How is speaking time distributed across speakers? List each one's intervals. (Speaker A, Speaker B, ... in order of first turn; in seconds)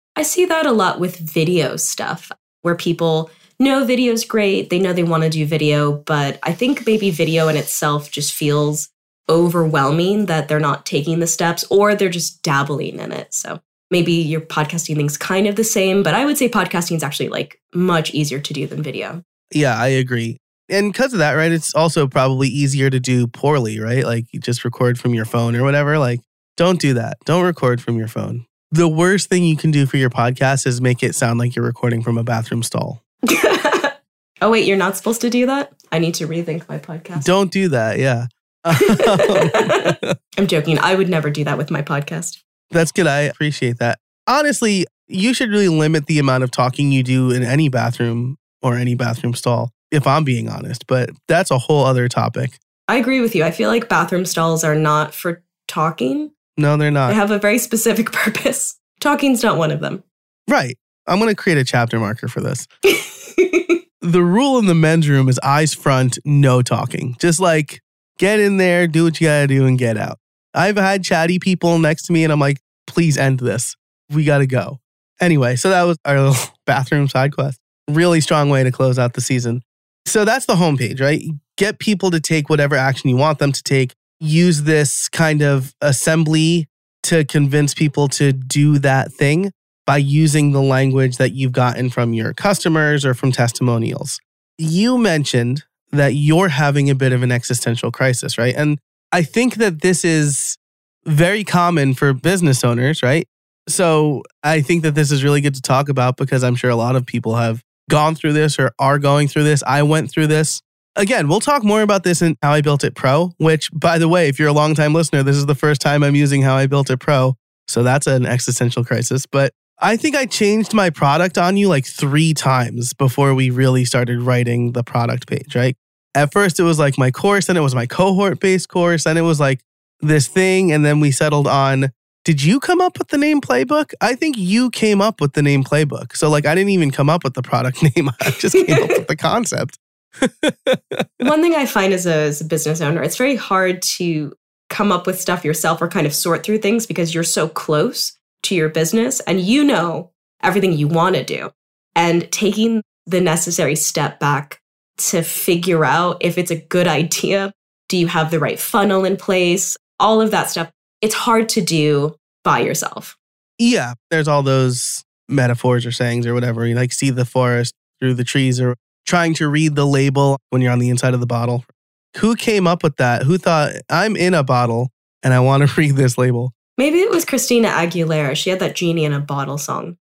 Speaker A: 0.2-19.2, 33.3-37.3, 38.9-39.8, 40.4-42.4, 52.9-56.3, 57.1-60.0, 62.9-63.8, 138.6-138.9, 141.2-163.2, 176.8-179.9
Speaker B: 19.5-33.0, 37.2-40.1, 42.7-52.6, 56.6-57.2, 60.5-62.7, 64.0-141.2, 163.6-176.5